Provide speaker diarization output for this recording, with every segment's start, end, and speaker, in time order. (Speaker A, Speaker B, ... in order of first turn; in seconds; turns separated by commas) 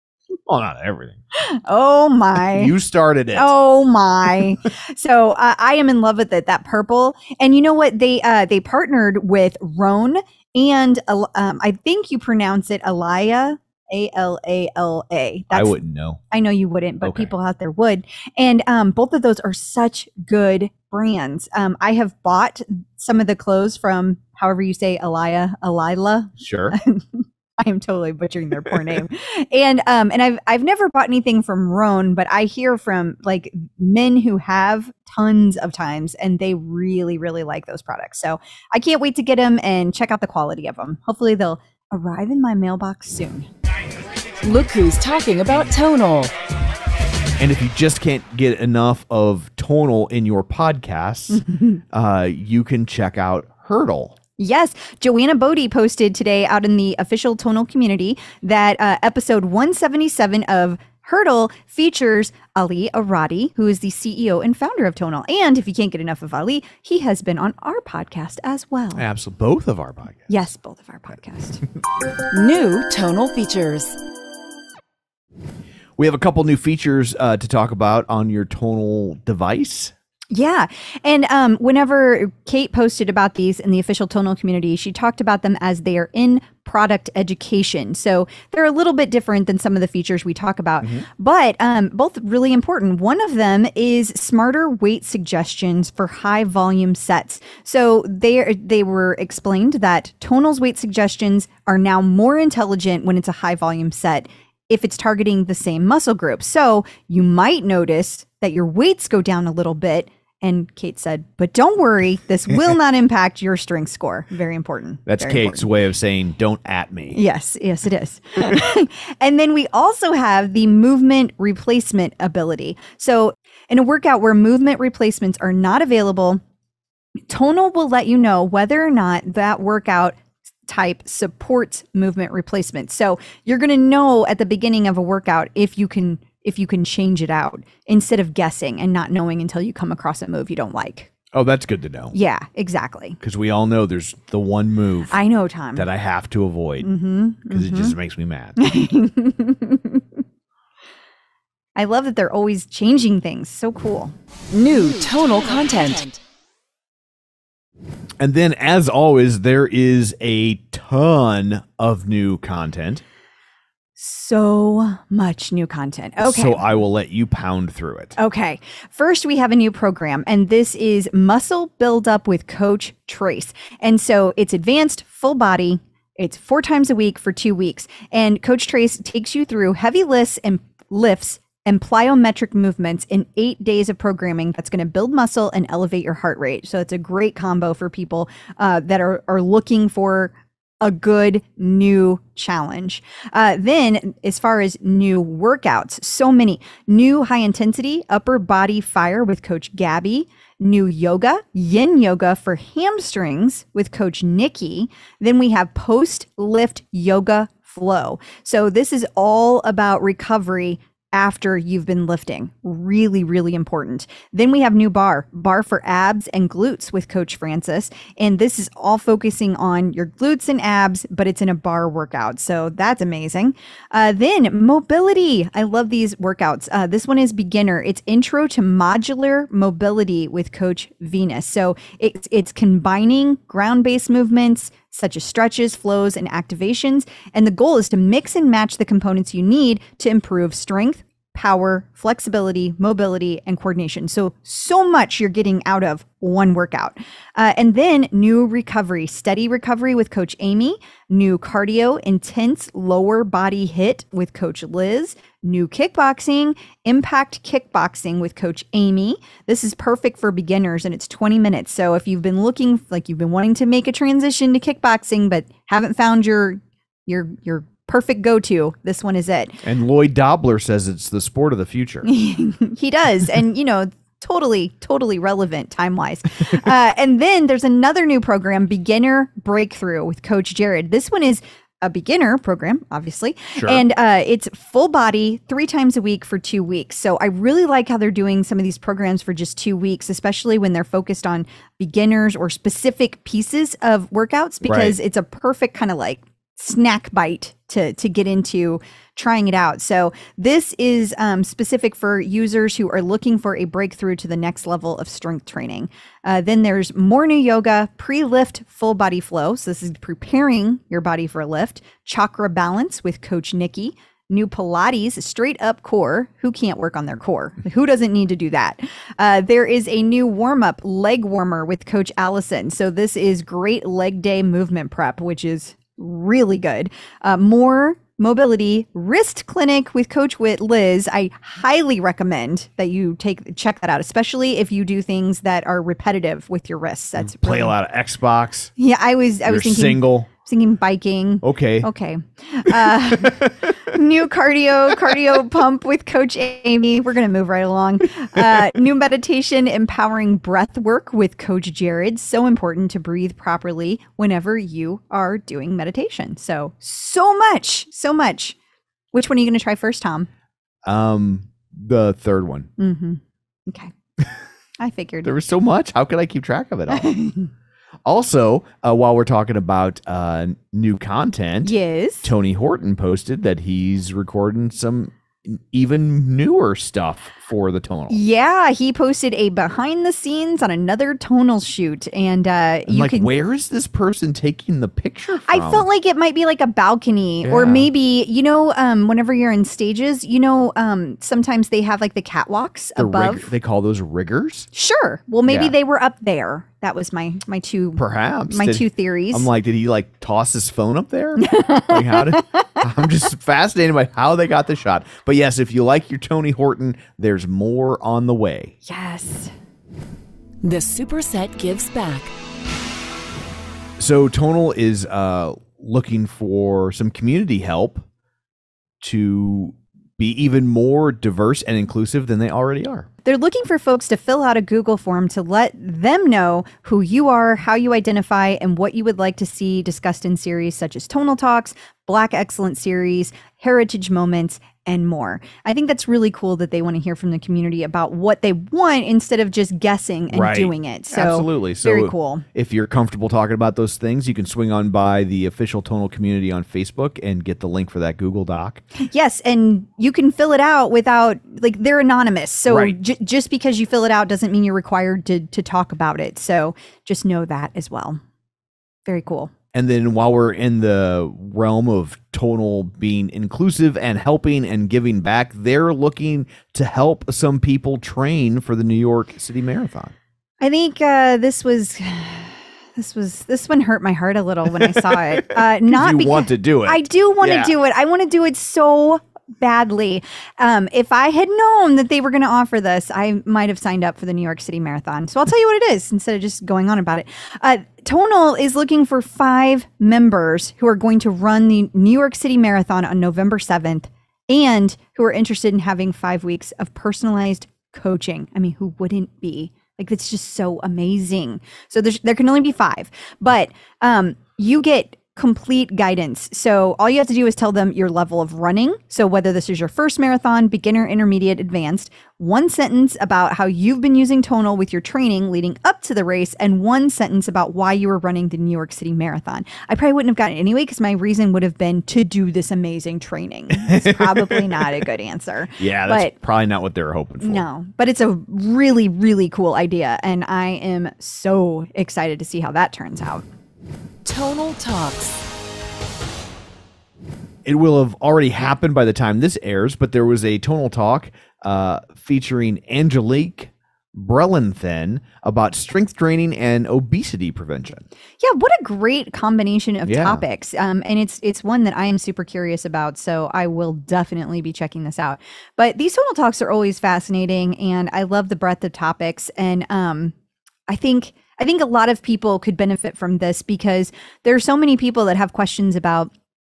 Speaker A: 0.5-1.2, Speaker B: 1.4-2.8, Speaker A: 2.4-3.5, Speaker B: 3.3-15.8, Speaker A: 15.5-16.2, Speaker B: 16.3-43.5, Speaker A: 17.0-17.3, Speaker A: 26.4-26.8, Speaker A: 28.7-29.0, Speaker C: 44.4-46.3, Speaker A: 47.4-54.2, Speaker B: 51.3-51.8, Speaker B: 54.4-69.0, Speaker A: 69.0-70.3, Speaker B: 70.3-71.6, Speaker C: 72.3-74.0, Speaker A: 76.0-79.9, Speaker B: 80.3-115.7, Speaker A: 90.8-91.1, Speaker A: 115.1-117.2, Speaker B: 117.1-126.4, Speaker B: 127.3-141.1, Speaker A: 141.3-142.1, Speaker B: 142.1-143.2, Speaker A: 143.2-145.2, Speaker B: 145.1-145.9, Speaker A: 145.8-146.9, Speaker B: 146.8-148.0, Speaker A: 147.5-148.6, Speaker B: 148.6-150.0, Speaker B: 151.8-154.2, Speaker C: 154.5-156.2, Speaker A: 158.2-163.0, Speaker B: 164.0-166.8, Speaker A: 166.2-168.2, Speaker B: 168.2-269.6, Speaker A: 269.6-272.1, Speaker B: 272.1-337.8, Speaker A: 283.6-283.8, Speaker A: 294.6-295.0, Speaker A: 337.2-338.7, Speaker B: 338.8-358.6, Speaker A: 339.4-340.3, Speaker A: 341.4-341.9, Speaker A: 342.7-343.7, Speaker A: 344.9-345.2, Speaker A: 348.4-348.7, Speaker B: 359.1-360.3, Speaker A: 360.9-362.7, Speaker B: 362.8-363.9, Speaker B: 364.8-365.3, Speaker A: 365.2-367.1, Speaker B: 366.9-367.5, Speaker A: 368.1-378.2, Speaker B: 371.6-372.3, Speaker B: 378.1-383.3, Speaker A: 382.9-385.9, Speaker B: 385.5-393.5, Speaker A: 387.4-387.9, Speaker A: 393.0-394.7, Speaker B: 394.7-399.5, Speaker A: 395.5-395.8, Speaker A: 398.0-408.8, Speaker B: 401.4-402.9, Speaker B: 408.9-409.5, Speaker C: 410.6-412.3, Speaker A: 414.0-418.1, Speaker A: 419.0-423.1, Speaker B: 423.2-442.4, Speaker A: 440.3-448.8, Speaker B: 449.0-458.2, Speaker A: 452.7-453.0, Speaker B: 459.1-459.5, Speaker A: 459.7-470.1, Speaker B: 470.6-526.4, Speaker A: 474.7-477.7, Speaker A: 523.8-525.0, Speaker A: 525.8-527.6, Speaker B: 527.4-533.5, Speaker C: 534.2-535.4, Speaker A: 537.6-548.1, Speaker B: 548.4-560.3, Speaker A: 550.0-550.4, Speaker B: 560.9-566.3